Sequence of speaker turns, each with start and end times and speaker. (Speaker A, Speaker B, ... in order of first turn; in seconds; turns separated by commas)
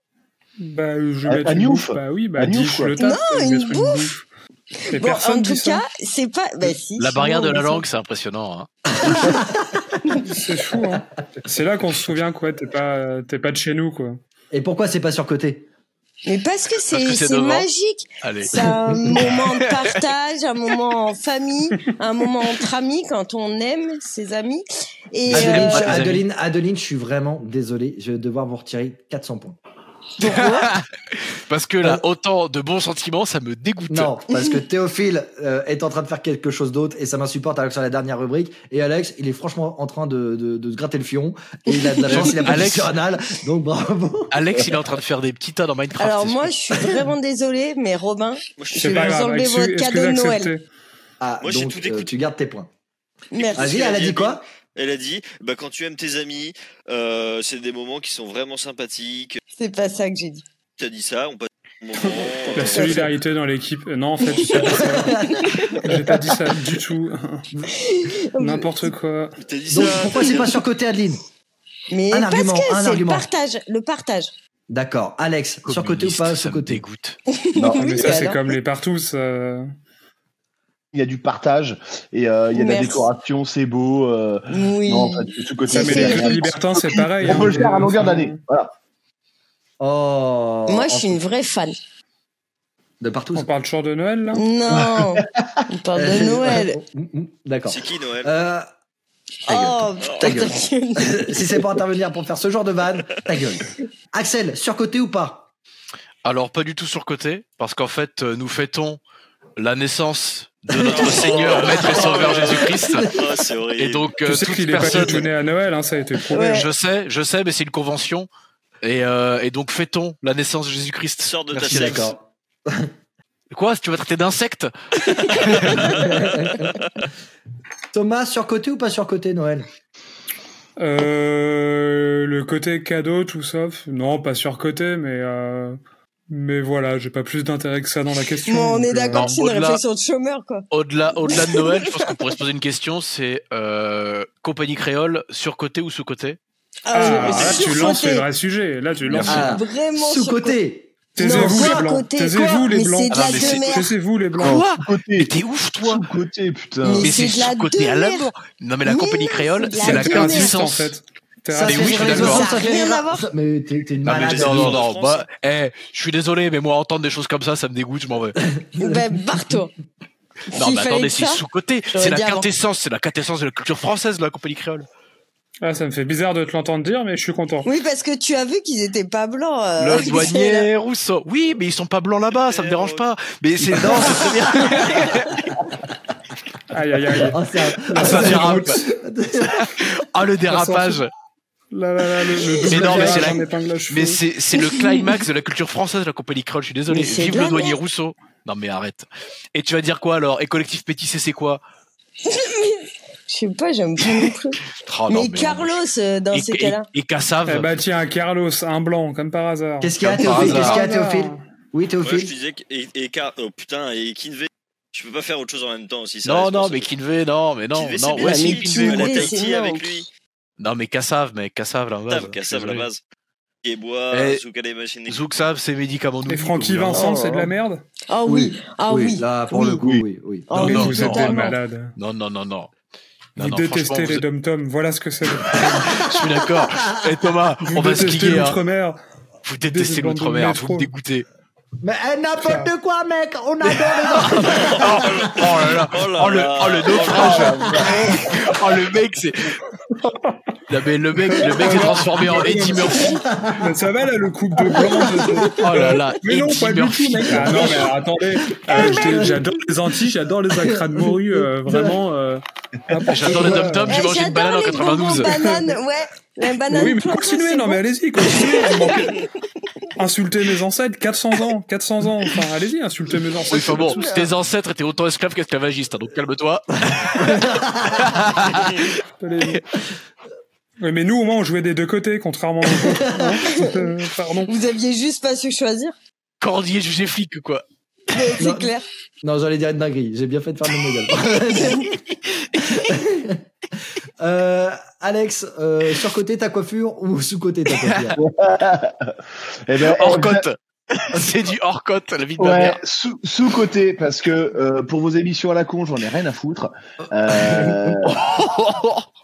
Speaker A: 0.6-4.3, Speaker B: 1.3-3.0, Speaker C: 3.0-4.1, Speaker C: 4.9-7.8, Speaker A: 4.9-5.8, Speaker D: 7.0-8.7, Speaker E: 9.0-9.9, Speaker A: 10.3-14.2, Speaker E: 14.5-15.7, Speaker C: 16.3-26.1, Speaker D: 16.9-17.7, Speaker D: 18.2-20.0, Speaker D: 25.3-26.2, Speaker E: 25.3-29.6, Speaker E: 30.2-30.7, Speaker D: 30.2-34.1, Speaker E: 33.9-44.4, Speaker C: 41.7-42.5, Speaker D: 42.1-43.0, Speaker D: 44.3-46.5, Speaker C: 46.0-50.5, Speaker F: 48.6-49.3, Speaker A: 48.8-50.6, Speaker E: 51.2-52.7, Speaker F: 51.4-52.1, Speaker C: 53.3-53.9, Speaker F: 53.4-59.4, Speaker E: 53.6-54.4, Speaker C: 59.6-60.4, Speaker F: 60.8-63.1, Speaker A: 62.0-65.2, Speaker C: 62.6-63.0, Speaker C: 64.3-65.9, Speaker E: 64.6-65.9, Speaker A: 65.8-67.5, Speaker C: 67.8-68.9, Speaker A: 68.4-69.4, Speaker F: 69.4-70.6, Speaker E: 69.7-71.2, Speaker C: 71.9-74.3, Speaker E: 72.1-73.3, Speaker E: 74.7-76.8, Speaker D: 75.7-77.2, Speaker C: 77.4-78.5, Speaker B: 77.5-78.1, Speaker A: 77.8-79.7, Speaker B: 80.9-88.7, Speaker C: 82.5-83.1, Speaker C: 84.5-86.5, Speaker A: 85.7-88.4, Speaker E: 89.8-91.2, Speaker C: 90.7-91.8, Speaker E: 93.0-93.5, Speaker A: 93.3-94.4, Speaker C: 94.3-96.8, Speaker B: 94.7-95.6, Speaker E: 95.9-98.7, Speaker F: 97.7-98.3, Speaker C: 99.5-101.6, Speaker E: 99.5-105.5, Speaker D: 106.2-109.0, Speaker D: 109.6-113.2, Speaker E: 110.7-111.6, Speaker F: 110.8-114.1, Speaker E: 112.4-113.4, Speaker D: 113.8-115.3, Speaker A: 114.2-116.7, Speaker C: 116.3-116.7, Speaker D: 116.4-118.3, Speaker D: 118.8-122.2, Speaker F: 121.2-122.1, Speaker E: 121.6-122.9, Speaker D: 123.5-126.0, Speaker E: 125.6-126.7, Speaker E: 127.9-129.7, Speaker A: 130.8-139.4, Speaker C: 138.5-140.7, Speaker D: 139.1-139.8, Speaker D: 140.7-146.4, Speaker C: 141.2-142.4, Speaker C: 146.9-148.3, Speaker A: 146.9-149.6, Speaker D: 149.1-149.4, Speaker C: 149.1-150.6, Speaker E: 149.2-151.9, Speaker A: 151.2-154.6, Speaker C: 151.2-153.9, Speaker D: 153.1-153.8, Speaker D: 154.4-156.0, Speaker B: 154.4-157.2, Speaker C: 156.8-158.3, Speaker D: 157.0-160.9, Speaker C: 158.8-160.6, Speaker A: 159.8-162.4, Speaker E: 161.5-164.8, Speaker D: 161.6-162.5, Speaker C: 162.1-163.3, Speaker F: 164.1-165.3, Speaker D: 164.1-168.4, Speaker E: 168.6-169.2, Speaker C: 168.8-169.7, Speaker C: 170.5-172.5, Speaker D: 170.5-174.9, Speaker A: 175.6-177.7, Speaker C: 177.6-180.7, Speaker D: 179.8-185.3, Speaker F: 182.5-183.1, Speaker E: 183.8-185.2, Speaker F: 184.1-184.8, Speaker A: 186.7-188.7, Speaker E: 187.2-189.8, Speaker D: 188.0-188.8, Speaker D: 189.5-191.1, Speaker A: 190.5-191.0, Speaker A: 191.7-194.3, Speaker E: 192.5-192.9, Speaker D: 192.7-201.6, Speaker C: 194.5-195.1, Speaker C: 196.9-197.8, Speaker C: 202.2-206.9, Speaker D: 204.8-205.8, Speaker D: 206.3-207.7, Speaker A: 207.4-211.4, Speaker E: 209.8-212.3, Speaker D: 210.0-210.8, Speaker F: 212.0-216.9, Speaker D: 216.2-219.3, Speaker F: 217.8-220.1, Speaker C: 218.2-220.1, Speaker D: 220.6-222.9, Speaker F: 222.1-223.0, Speaker F: 223.6-225.2, Speaker D: 224.1-224.4, Speaker D: 225.1-227.2, Speaker A: 226.3-227.8, Speaker C: 226.9-227.5, Speaker C: 228.1-229.8, Speaker E: 228.2-230.5, Speaker B: 229.8-230.0, Speaker C: 230.5-231.6, Speaker D: 230.5-232.7, Speaker A: 230.6-232.0, Speaker D: 233.4-234.2, Speaker A: 233.4-236.1, Speaker E: 235.9-237.1, Speaker D: 236.0-238.6, Speaker A: 237.6-239.0, Speaker D: 239.4-241.3, Speaker A: 239.6-240.9, Speaker E: 241.8-245.6, Speaker A: 242.4-242.7, Speaker D: 243.7-249.6, Speaker F: 244.6-247.6, Speaker B: 247.1-248.3, Speaker E: 247.6-248.6, Speaker A: 249.9-250.3, Speaker D: 250.7-253.2, Speaker A: 251.2-264.0, Speaker E: 251.4-253.7, Speaker E: 254.7-256.0, Speaker D: 255.5-257.9, Speaker E: 258.7-259.6, Speaker E: 260.5-262.0, Speaker D: 263.1-265.4, Speaker E: 263.1-263.9, Speaker C: 263.9-269.2, Speaker A: 265.3-265.8, Speaker A: 266.7-269.2, Speaker A: 270.0-274.2, Speaker D: 273.5-278.9, Speaker C: 274.0-274.3, Speaker E: 276.9-278.3, Speaker A: 279.2-279.6, Speaker A: 280.8-284.5, Speaker E: 282.8-283.4, Speaker C: 283.5-283.9, Speaker C: 284.5-286.0, Speaker D: 286.4-287.6, Speaker C: 288.1-288.9, Speaker E: 288.4-292.0, Speaker E: 292.6-293.4, Speaker E: 294.2-298.2, Speaker D: 297.8-298.1, Speaker B: 298.2-300.4, Speaker D: 299.8-302.8, Speaker B: 302.4-308.2, Speaker E: 307.4-308.0, Speaker D: 308.1-309.1